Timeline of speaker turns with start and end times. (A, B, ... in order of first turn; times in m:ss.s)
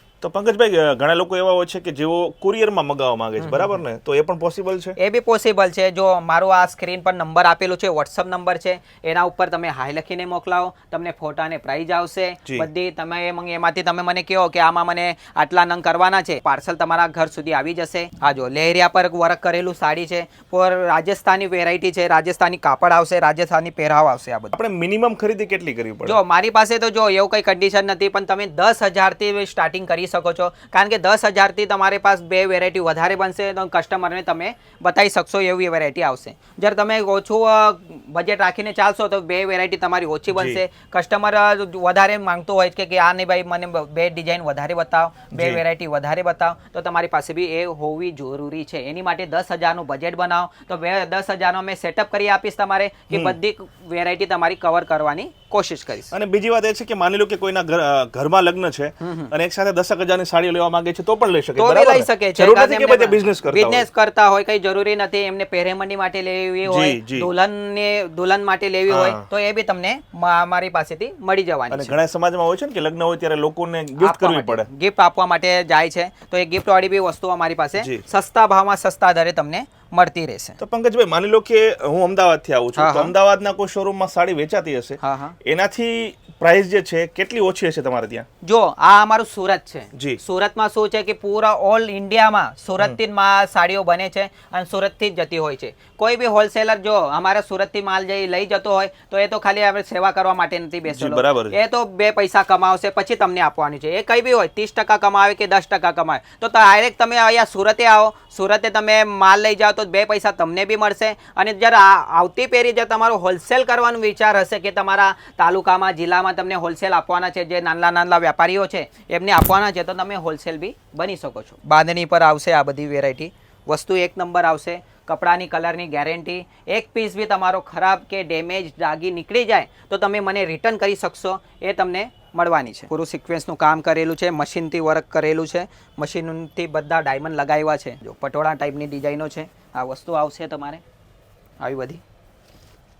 0:00.2-0:05.0 A
0:03.4-0:03.8 B
0:05.0-0:24.5 B
0:24.5-0:26.2 A
0:26.0-0:56.1 B
0:40.3-0:40.6 A
0:45.3-0:45.6 A
0:53.1-0:53.4 A
0:56.1-1:03.9 A
0:59.0-0:59.3 B
1:01.6-1:11.9 B
1:06.7-1:07.3 A
1:08.9-1:09.3 A
1:11.7-1:14.7 A
1:14.0-1:20.6 B
1:17.8-1:18.0 A
1:20.6-1:28.2 A
1:22.8-1:23.1 B
1:25.0-1:25.3 B
1:28.4-2:20.8 B
1:29.9-1:30.2 A
1:40.9-1:41.6 A
2:21.6-2:22.0 B